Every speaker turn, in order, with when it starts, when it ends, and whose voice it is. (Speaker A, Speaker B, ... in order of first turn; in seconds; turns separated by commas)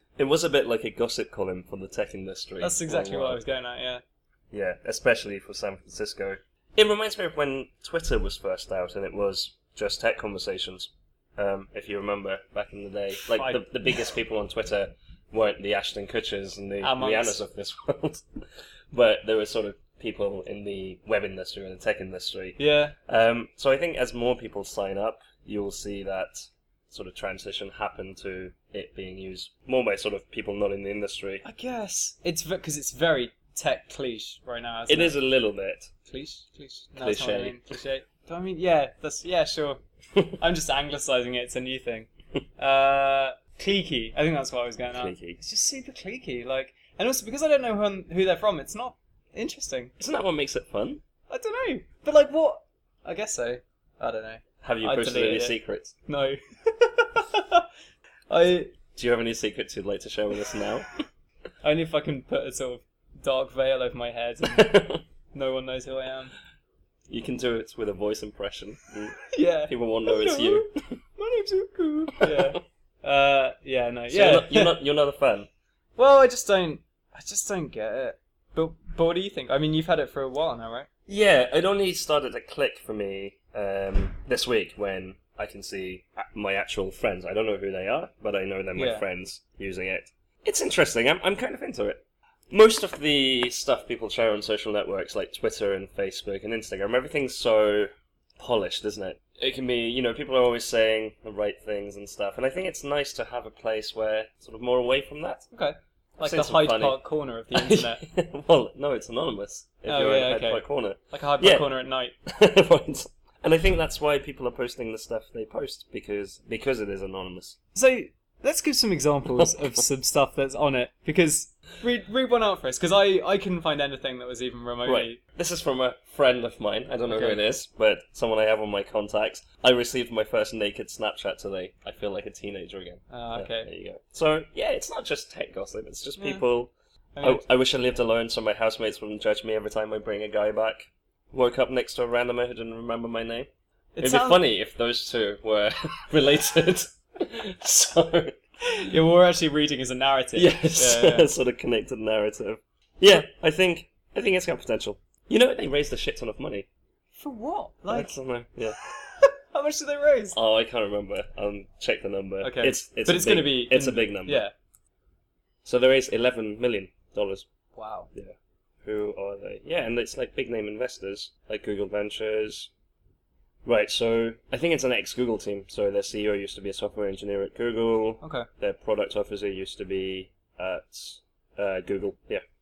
Speaker A: 0.2-3.4, Speaker B: 2.6-4.0, Speaker A: 4.5-18.2, Speaker B: 13.3-13.6, Speaker B: 16.8-17.4, Speaker A: 18.9-31.4, Speaker B: 22.6-22.9, Speaker B: 31.4-35.1, Speaker A: 34.9-35.9, Speaker B: 36.1-39.8, Speaker A: 37.0-37.6, Speaker B: 40.4-49.9, Speaker A: 44.9-45.4, Speaker A: 50.0-51.0, Speaker B: 51.3-57.7, Speaker A: 54.6-55.9, Speaker B: 58.3-58.7, Speaker A: 58.9-60.9, Speaker B: 61.6-64.8, Speaker A: 64.4-65.0, Speaker B: 65.3-66.3, Speaker A: 67.1-71.0, Speaker B: 69.3-74.8, Speaker A: 72.2-72.5, Speaker A: 74.1-75.5, Speaker B: 76.0-80.9, Speaker A: 81.1-105.5, Speaker B: 88.7-89.0, Speaker B: 105.5-108.0, Speaker A: 106.2-107.0, Speaker A: 107.5-111.7, Speaker B: 109.9-112.1, Speaker A: 112.2-117.6, Speaker B: 117.7-125.2, Speaker A: 124.8-143.5, Speaker B: 127.1-127.4, Speaker B: 133.1-133.7, Speaker B: 136.2-136.4, Speaker B: 137.1-137.4, Speaker B: 143.9-144.4, Speaker A: 144.0-148.4, Speaker B: 148.7-151.3, Speaker A: 150.3-156.7, Speaker B: 157.2-158.2, Speaker A: 157.9-158.8, Speaker B: 158.8-160.3, Speaker A: 160.3-164.4, Speaker B: 162.4-164.5, Speaker A: 165.6-167.4, Speaker B: 167.7-168.1, Speaker A: 168.1-172.7, Speaker A: 173.6-182.4, Speaker B: 178.2-178.5